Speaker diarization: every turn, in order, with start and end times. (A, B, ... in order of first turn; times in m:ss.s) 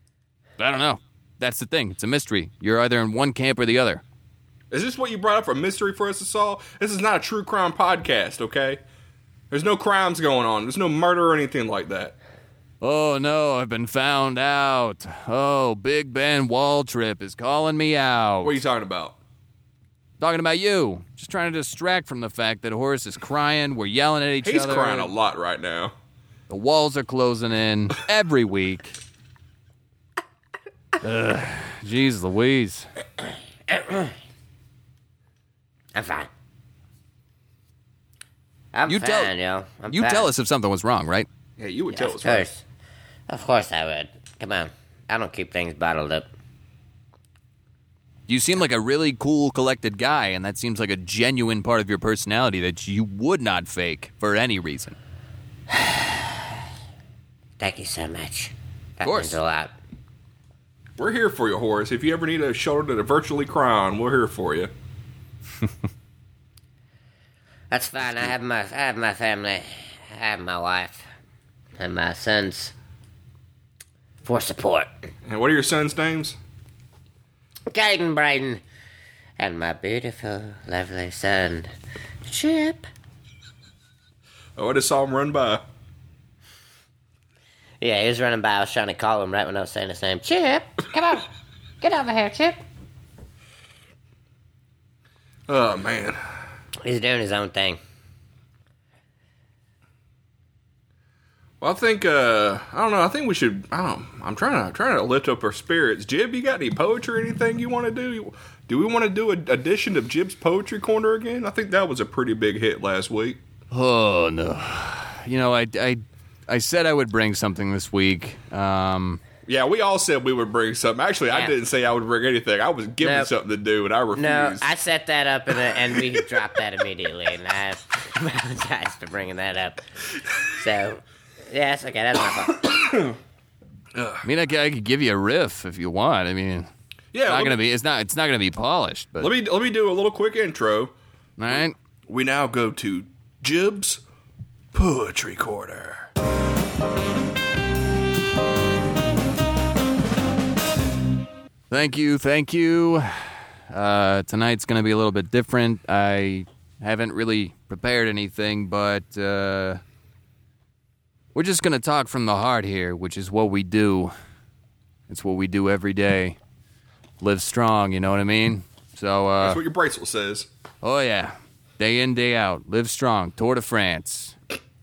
0:00.6-0:04.0 A
0:04.7-0:08.8 B
0:09.5-0:12.1 B
0:12.8-0:18.6 A
0:18.4-0:19.2 B
0:20.2-0:25.1 A
0:24.4-0:25.9 B
0:26.5-0:29.0 A
0:31.0-0:32.9 A
0:33.7-0:34.2 C
0:35.9-0:36.3 C
0:38.7-0:40.3 C
0:38.9-0:39.3 A
0:39.9-0:41.3 A
0:41.6-0:42.5 B
0:41.9-0:42.6 C
0:43.3-0:46.3 C
0:48.3-0:55.0 A
0:55.7-0:56.2 C
0:57.6-0:59.7 C
0:59.0-0:59.4 A
1:01.0-1:04.7 B
1:07.7-1:11.0 C
1:11.8-1:12.7 C
1:14.2-1:15.0 C
1:15.2-1:16.4 B
1:17.7-1:18.6 C
1:19.4-1:21.7 C
1:22.2-1:22.9 C
1:24.6-1:25.6 B
1:27.8-1:32.6 C
1:35.5-1:36.2 B
1:36.8-1:37.8 C
1:41.6-1:53.4 B
1:53.7-1:59.2 A
1:59.4-2:04.7 B
2:03.0-2:03.3 C
2:04.1-2:09.8 C
2:10.3-2:13.1 C
2:13.9-2:14.3 B
2:14.2-2:16.7 A
2:17.1-2:17.6 B
2:17.2-2:19.3 A
2:19.2-2:20.9 B
2:21.4-2:21.7 A
2:21.5-2:24.0 B
2:24.7-2:26.1 B
2:31.7-2:39.8 A
2:41.3-2:44.1 A
2:45.1-2:46.4 A
2:47.2-2:49.6 A
2:49.4-2:50.5 B
2:50.8-2:54.4 A